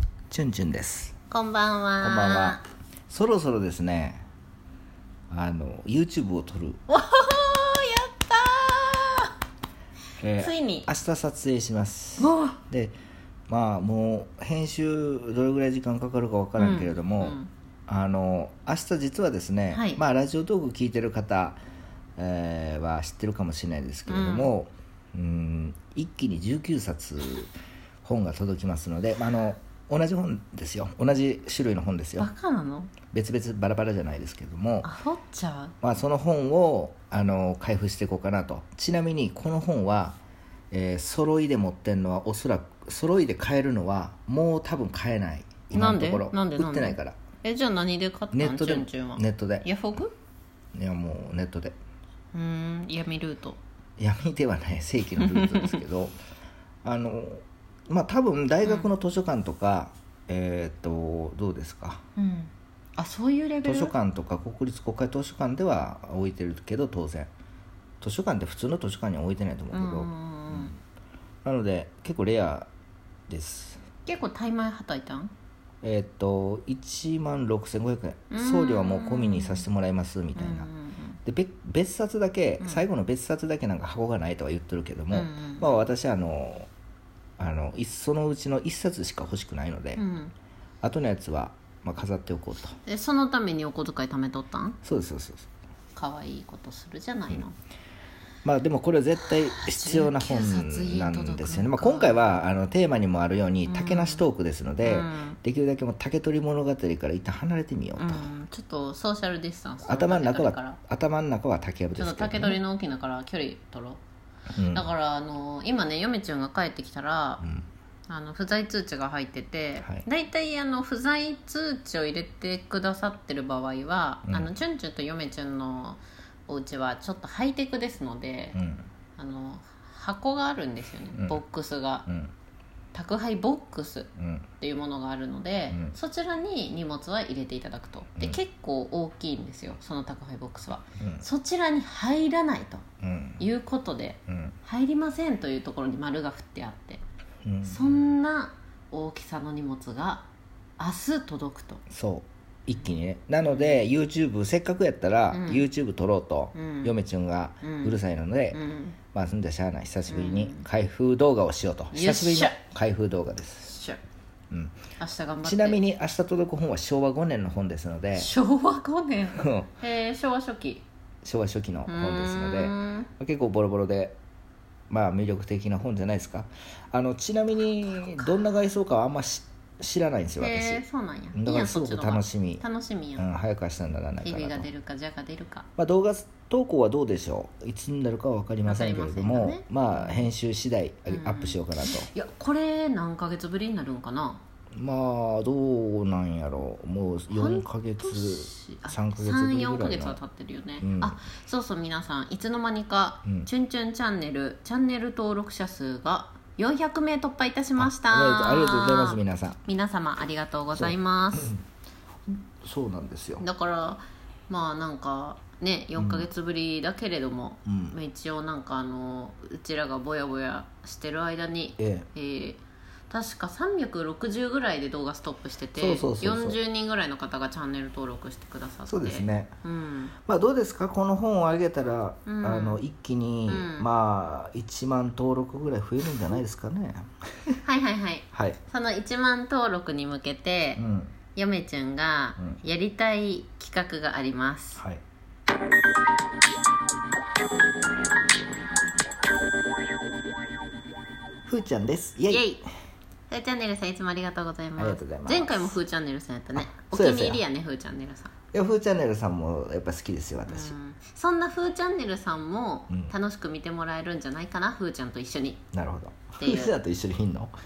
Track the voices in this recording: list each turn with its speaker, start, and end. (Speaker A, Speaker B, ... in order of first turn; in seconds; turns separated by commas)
Speaker A: 0.3-1.1, Speaker B: 1.3-2.6, Speaker A: 2.0-4.2, Speaker A: 5.3-6.8, Speaker B: 6.9-9.3, Speaker A: 10.2-12.9, Speaker B: 10.4-10.9, Speaker B: 12.2-12.6, Speaker A: 13.5-21.6, Speaker B: 16.6-17.5, Speaker B: 19.7-20.0, Speaker A: 22.2-27.5, Speaker B: 24.1-24.5, Speaker A: 28.0-32.3, Speaker B: 32.2-32.9, Speaker A: 33.1-34.9, Speaker B: 34.8-35.7, Speaker A: 35.8-40.2, Speaker A: 40.7-47.2, Speaker B: 45.7-50.1, Speaker A: 48.3-49.7, Speaker A: 50.7-51.8, Speaker B: 52.3-53.6, Speaker A: 54.0-56.1, Speaker B: 55.2-55.8, Speaker A: 56.8-62.0, Speaker B: 62.1-63.9, Speaker A: 63.6-67.3, Speaker A: 68.0-70.8, Speaker B: 69.7-70.7, Speaker A: 71.4-72.7, Speaker A: 73.3-73.8, Speaker B: 74.0-75.3, Speaker A: 75.8-80.7, Speaker B: 78.3-79.7, Speaker B: 80.3-81.2, Speaker A: 81.2-86.7, Speaker B: 85.1-85.8, Speaker A: 87.4-90.0, Speaker B: 90.0-90.3, Speaker A: 90.8-92.8, Speaker B: 92.8-94.8, Speaker A: 94.8-95.5, Speaker B: 95.9-97.5, Speaker A: 98.4-108.3, Speaker B: 99.2-102.4, Speaker B: 103.7-104.2, Speaker B: 104.8-105.4, Speaker B: 108.0-110.8, Speaker A: 109.8-112.6, Speaker B: 111.9-114.0, Speaker A: 114.5-114.9, Speaker B: 114.7-117.4, Speaker B: 118.1-128.6, Speaker A: 124.2-124.5, Speaker A: 128.5-128.8, Speaker B: 129.2-132.1, Speaker A: 131.1-131.4, Speaker A: 132.1-132.3, Speaker B: 132.9-142.8, Speaker A: 134.2-134.5, Speaker A: 135.7-135.9, Speaker A: 143.0-143.4, Speaker B: 143.4-147.0, Speaker A: 144.3-144.5, Speaker A: 147.4-148.0, Speaker B: 147.6-150.2, Speaker B: 150.8-151.8, Speaker A: 151.9-158.6, Speaker B: 153.4-153.8, Speaker B: 155.3-155.6, Speaker B: 156.5-156.9, Speaker B: 157.6-157.9, Speaker B: 158.5-158.9, Speaker A: 159.1-163.7, Speaker B: 160.1-160.7, Speaker B: 161.9-162.6, Speaker B: 163.6-164.0, Speaker A: 164.5-164.8, Speaker B: 165.0-165.8, Speaker A: 165.4-168.3, Speaker B: 168.2-170.8, Speaker A: 169.3-169.7, Speaker A: 171.2-174.2, Speaker B: 171.9-173.1, Speaker A: 174.9-180.8, Speaker B: 178.0-178.3, Speaker B: 180.4-183.2, Speaker A: 181.3-182.6, Speaker A: 183.2-184.7, Speaker B: 184.2-185.7, Speaker A: 185.8-192.1, Speaker B: 188.7-190.3, Speaker B: 191.1-194.4, Speaker A: 194.7-200.2, Speaker B: 197.3-211.5, Speaker A: 200.8-201.2, Speaker A: 203.2-203.5, Speaker A: 207.8-209.6, Speaker A: 210.7-211.6, Speaker A: 212.3-213.4, Speaker B: 213.4-230.1, Speaker A: 215.9-216.3, Speaker A: 217.6-217.9, Speaker A: 221.8-222.1, Speaker A: 225.7-226.6, Speaker A: 228.9-229.5, Speaker A: 230.2-237.6, Speaker B: 232.2-232.8, Speaker B: 233.5-233.9, Speaker B: 237.6-240.8, Speaker A: 238.3-238.6, Speaker A: 240.8-241.1, Speaker B: 241.3-244.8, Speaker A: 251.4-252.5, Speaker B: 252.3-252.6, Speaker B: 253.3-258.3, Speaker A: 254.8-255.8, Speaker A: 256.6-257.4, Speaker A: 258.5-260.7, Speaker B: 260.5-265.6, Speaker A: 262.9-263.1, Speaker A: 265.7-267.5, Speaker B: 266.4-266.7